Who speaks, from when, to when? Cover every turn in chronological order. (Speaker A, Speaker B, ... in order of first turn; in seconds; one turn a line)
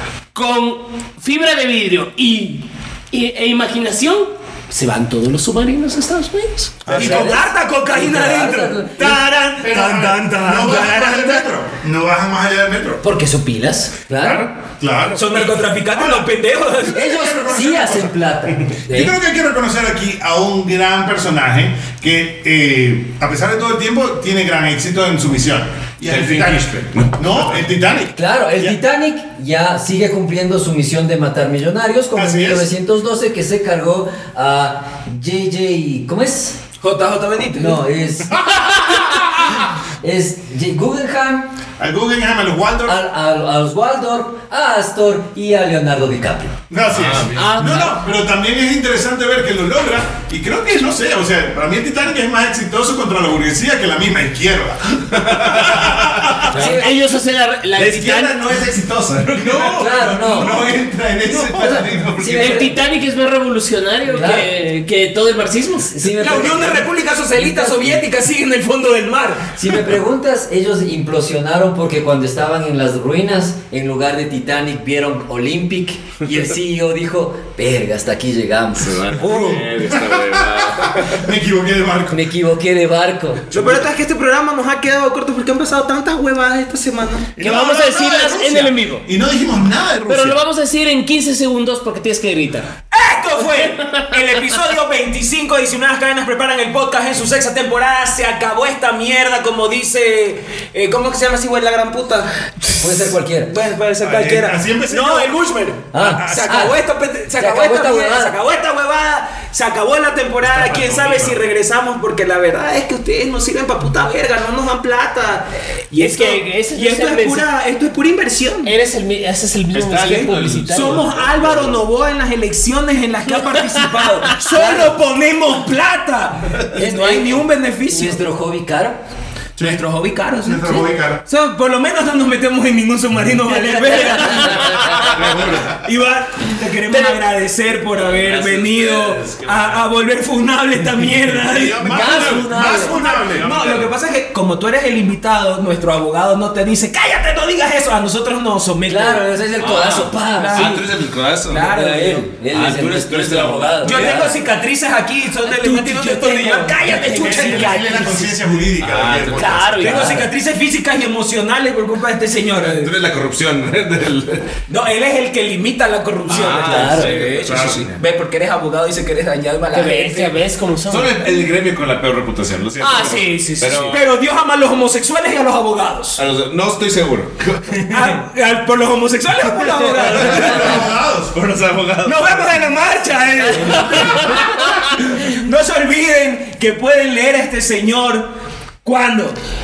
Speaker A: 0.3-6.9
Speaker B: 6.9-7.4
Speaker C: 6.9-11.5
Speaker D: 6.9-9.2
Speaker B: 9.6-13.0
Speaker A: 13.0-13.9
Speaker D: 14.1-14.5
Speaker B: 14.2-16.2
Speaker C: 15.1-17.2
Speaker D: 16.9-19.1
Speaker B: 17.0-28.8
Speaker E: 26.1-27.7
Speaker D: 28.1-36.6
Speaker B: 32.1-32.7
Speaker C: 36.8-37.8
Speaker D: 37.6-38.4
Speaker B: 38.5-38.8
Speaker D: 40.0-41.5
Speaker B: 41.8-43.0
Speaker D: 42.9-46.5
Speaker B: 46.7-56.8
Speaker E: 46.9-47.6
Speaker A: 47.3-48.0
Speaker E: 55.3-56.0
Speaker D: 56.5-56.9
Speaker A: 56.5-58.5
Speaker E: 57.8-62.7
Speaker B: 59.4-60.7
Speaker D: 59.6-60.6
Speaker D: 61.4-62.7
Speaker A: 62.2-66.1
Speaker D: 64.1-64.5
Speaker D: 65.9-68.0
Speaker C: 66.1-69.5
Speaker D: 69.5-79.2
Speaker E: 78.8-81.2
Speaker B: 79.3-82.2
Speaker D: 82.1-83.5
Speaker C: 83.5-87.3
Speaker B: 87.3-90.4
Speaker A: 87.4-89.1
Speaker A: 90.1-92.7
Speaker C: 92.9-118.7
Speaker A: 93.7-94.4
Speaker D: 102.8-103.5
Speaker B: 104.0-105.3
Speaker D: 105.9-106.8
Speaker D: 107.4-108.3
Speaker E: 110.5-111.4
Speaker A: 115.9-117.5
Speaker A: 118.6-121.1
Speaker E: 119.7-121.8
Speaker C: 120.7-128.2
Speaker D: 124.5-124.9
Speaker D: 126.7-129.0
Speaker B: 129.6-129.8
Speaker C: 129.6-135.1
Speaker B: 130.4-131.2
Speaker D: 133.5-135.0
Speaker E: 135.0-135.8
Speaker B: 135.1-135.6
Speaker C: 135.8-149.2
Speaker E: 138.0-139.8
Speaker B: 141.5-143.8
Speaker E: 141.5-143.9
Speaker D: 141.9-143.0
Speaker D: 148.9-150.8
Speaker E: 149.6-151.7
Speaker C: 150.3-150.8
Speaker C: 151.5-152.3
Speaker D: 151.5-154.3
Speaker E: 152.5-154.2
Speaker C: 153.8-158.4
Speaker D: 155.6-156.7
Speaker A: 155.6-156.1
Speaker B: 156.8-160.1
Speaker E: 158.8-160.0
Speaker A: 159.3-160.2
Speaker C: 159.8-162.9
Speaker D: 159.8-160.1
Speaker E: 162.6-164.5
Speaker C: 164.7-170.4
Speaker E: 166.3-168.0
Speaker D: 166.6-167.2
Speaker A: 169.7-171.1
Speaker E: 170.9-174.0
Speaker A: 172.8-174.0
Speaker C: 173.9-176.2
Speaker E: 176.2-177.9
Speaker C: 177.8-180.9
Speaker E: 179.9-182.3
Speaker B: 180.1-181.4
Speaker C: 182.1-188.3
Speaker A: 183.6-184.6
Speaker C: 188.8-189.4